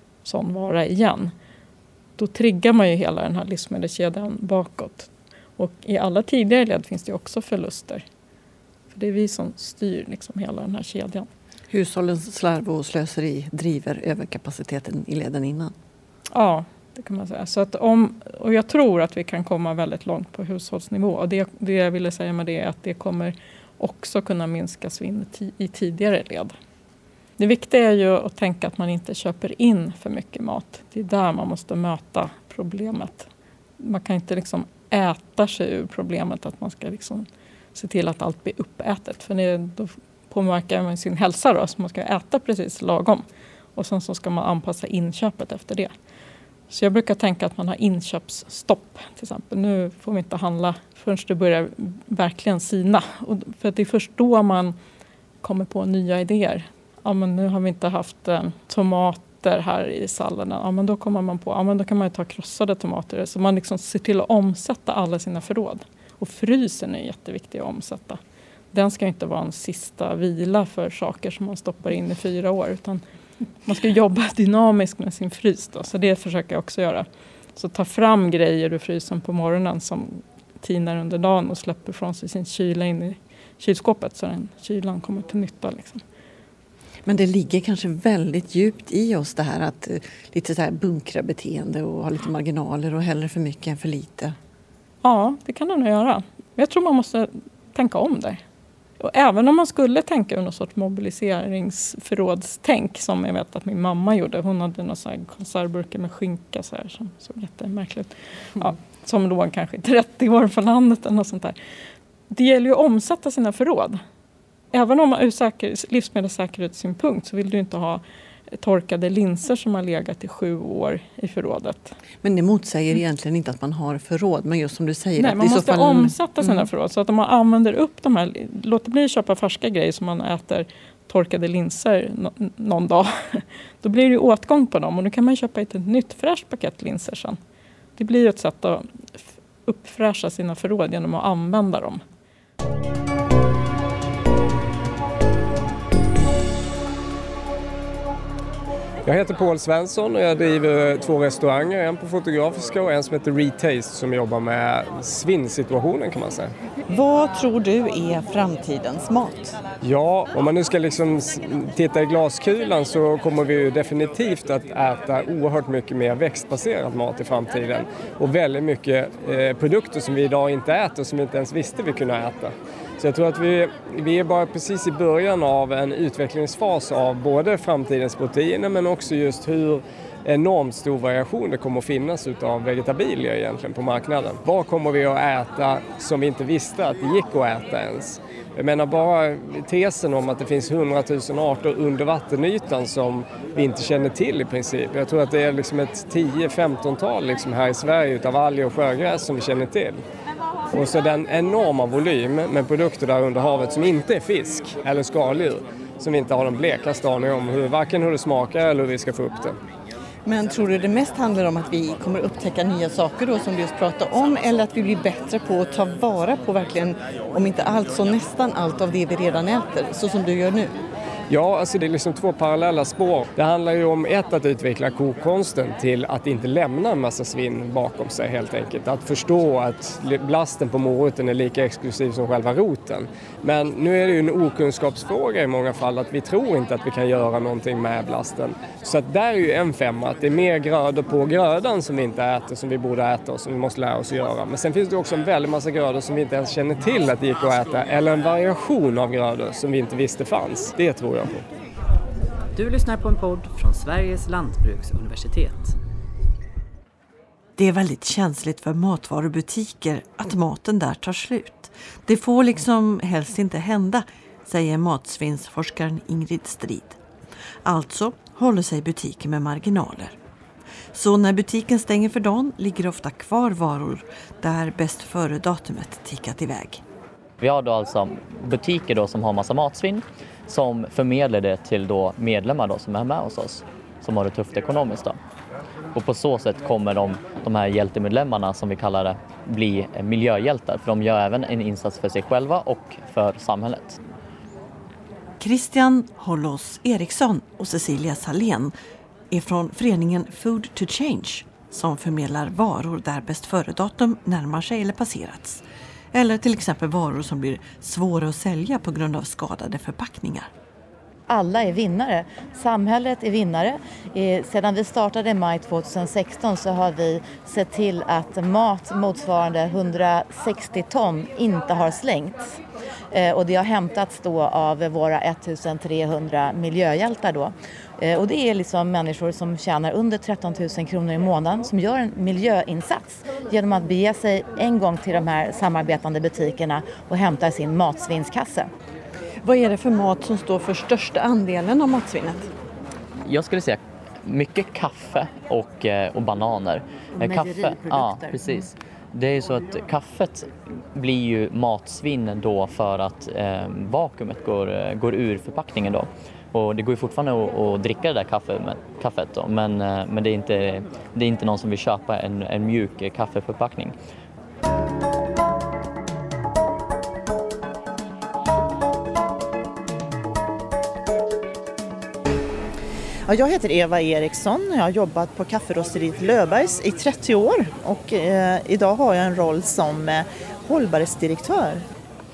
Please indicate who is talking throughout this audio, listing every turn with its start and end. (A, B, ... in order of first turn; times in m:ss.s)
0:00.2-0:01.3 A
0:02.2-0:08.0 A
0:08.9-0:11.3 A
0:11.7-0:15.7 B
0:16.3-0:26.5 A
0:27.4-0:33.3 A
0:33.8-0:43.2 A
0:43.7-0:45.9 A
0:46.7-0:54.8 A
0:55.4-1:08.2 A
1:08.7-1:13.0 A
1:13.6-1:26.0 A
1:27.2-1:34.3 B
1:35.0-1:38.4 A
1:39.0-1:51.6 A
1:52.3-1:54.0 A
1:54.7-2:01.9 A
2:02.2-2:06.7 B
2:05.2-2:17.4 A
2:18.0-2:22.0 A
2:29.0-2:36.5 C
2:39.8-3:20.0 C
3:20.7-3:29.6 C
3:30.2-3:36.8 B
3:38.8-3:40.6 B
3:41.3-4:11.4 C
4:12.5-4:15.8 D
4:17.6-4:27.0 E
4:27.6-4:30.2 E
4:30.9-4:36.8 E
4:37.4-4:45.2 F
4:45.9-4:54.0 F
4:55.4-4:58.7 E
4:59.3-5:10.5 E
5:11.3-5:22.6 G
5:23.1-5:38.7 G
5:39.4-5:42.4 B
5:43.2-6:03.9 F
5:47.2-5:48.7 G
6:13.3-6:21.8 H